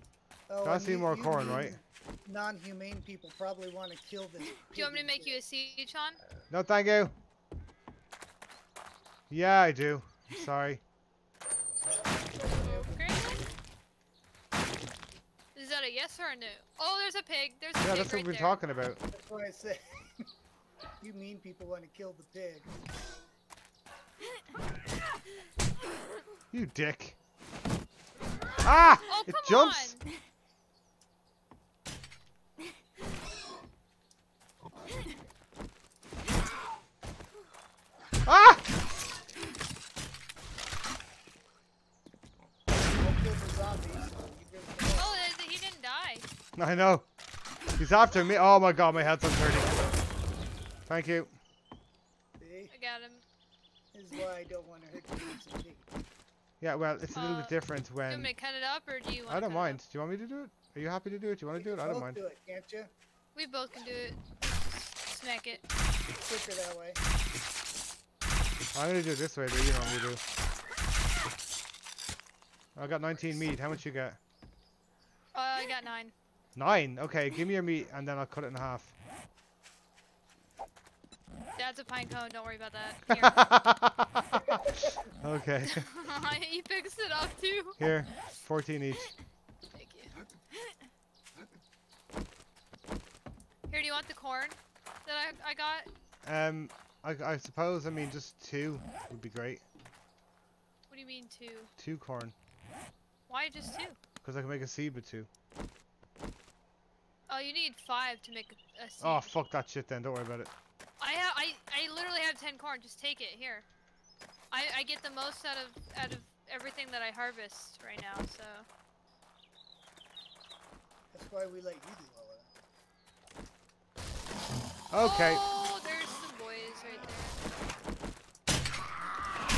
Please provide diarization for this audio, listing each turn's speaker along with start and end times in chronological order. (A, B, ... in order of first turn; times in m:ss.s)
0:00.5-0:05.4 A
0:00.6-0:01.8 B
0:04.7-0:06.2 C
0:06.5-0:07.1 B
0:09.3-0:10.8 B
0:12.2-0:13.5 A
0:12.6-0:13.4 C
0:15.5-0:18.6 C
0:17.8-0:19.0 B
0:19.1-0:20.3 A
0:21.0-0:22.7 A
0:26.5-0:27.2 B
0:28.6-0:30.0 B
0:29.1-0:30.0 C
0:38.2-0:38.7 B
0:42.8-0:45.2 A
0:44.9-0:46.2 C
0:46.6-0:47.1 B
0:47.8-0:49.8 B
0:50.9-0:51.3 B
0:52.4-0:52.7 A
0:52.7-0:53.2 C
0:53.9-0:55.9 A
0:56.6-0:58.3 B
0:57.1-0:57.5 C
0:58.1-0:59.8 C
0:59.3-1:02.2 B
1:01.5-1:02.9 A
1:03.3-1:05.6 C
1:06.2-1:07.0 A
1:08.7-1:10.2 B
1:12.8-1:14.2 B
1:15.3-1:16.1 C
1:16.6-1:18.9 B
1:21.6-1:23.5 C
1:23.2-1:25.8 B
1:24.5-1:24.9 A
1:25.7-1:27.8 C
1:27.8-1:29.1 B
1:29.7-1:30.1 C
1:33.7-1:35.9 C
1:36.2-1:39.6 B
1:40.9-1:41.7 C
1:41.8-1:42.3 B
1:43.3-1:44.0 C
1:44.2-1:45.3 B
1:47.3-1:49.3 C
1:49.0-1:50.5 B
1:51.0-1:53.6 C
1:54.5-1:58.7 C
2:01.1-2:02.5 A
2:04.9-2:05.4 B
2:05.0-2:07.4 C